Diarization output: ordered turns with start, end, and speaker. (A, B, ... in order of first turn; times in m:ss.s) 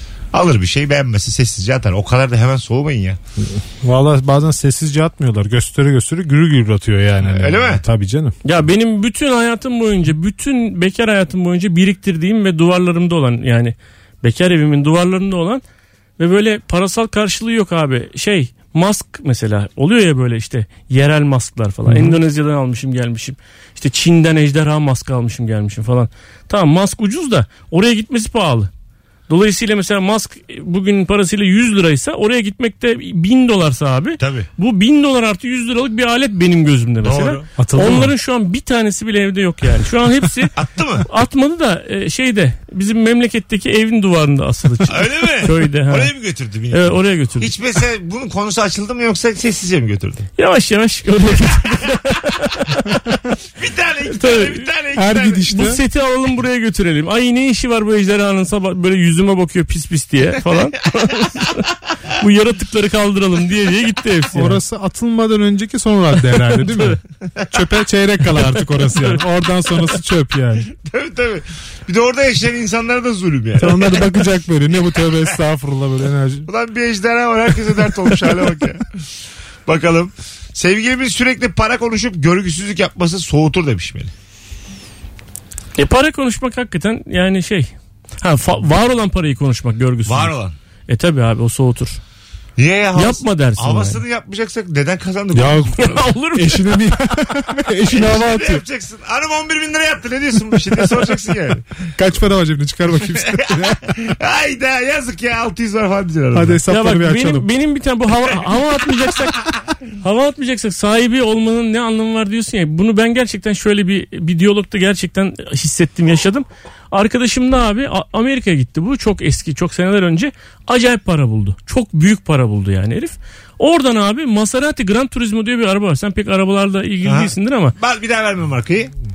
0:00.3-0:03.2 A
0:03.4-0:08.4 B
0:07.2-0:07.8 A
0:08.4-0:15.6 C
0:16.2-0:28.7 C
0:21.9-0:22.2 B
0:29.3-0:40.5 C
0:34.2-0:34.5 A
0:37.0-0:37.4 A
0:37.6-0:38.1 B
0:40.6-0:41.1 A
0:41.1-0:46.1 C
0:44.9-0:50.3 A
0:46.7-0:47.5 C
0:50.4-0:52.8 C
0:53.6-0:55.5 A
0:54.1-0:54.7 C
0:55.0-0:55.8 B
0:55.5-1:01.6 C
1:02.2-1:04.6 C
1:04.3-1:10.7 B
1:06.6-1:06.9 C
1:08.9-1:09.2 C
1:10.8-1:14.1 A
1:13.6-1:16.5 B
1:14.9-1:15.3 A
1:16.5-1:18.9 A
1:19.7-1:24.1 A
1:25.8-1:30.3 C
1:30.1-1:30.6 A
1:30.9-1:32.0 C
1:32.6-1:36.1 A
1:33.0-1:34.0 C
1:35.3-1:38.6 B
1:35.8-1:36.8 C
1:37.9-1:41.7 A
1:42.0-1:44.0 B
1:43.3-1:46.6 A
1:46.3-1:47.5 B
1:46.7-1:49.4 C
1:50.0-2:07.8 C
2:07.0-2:08.9 A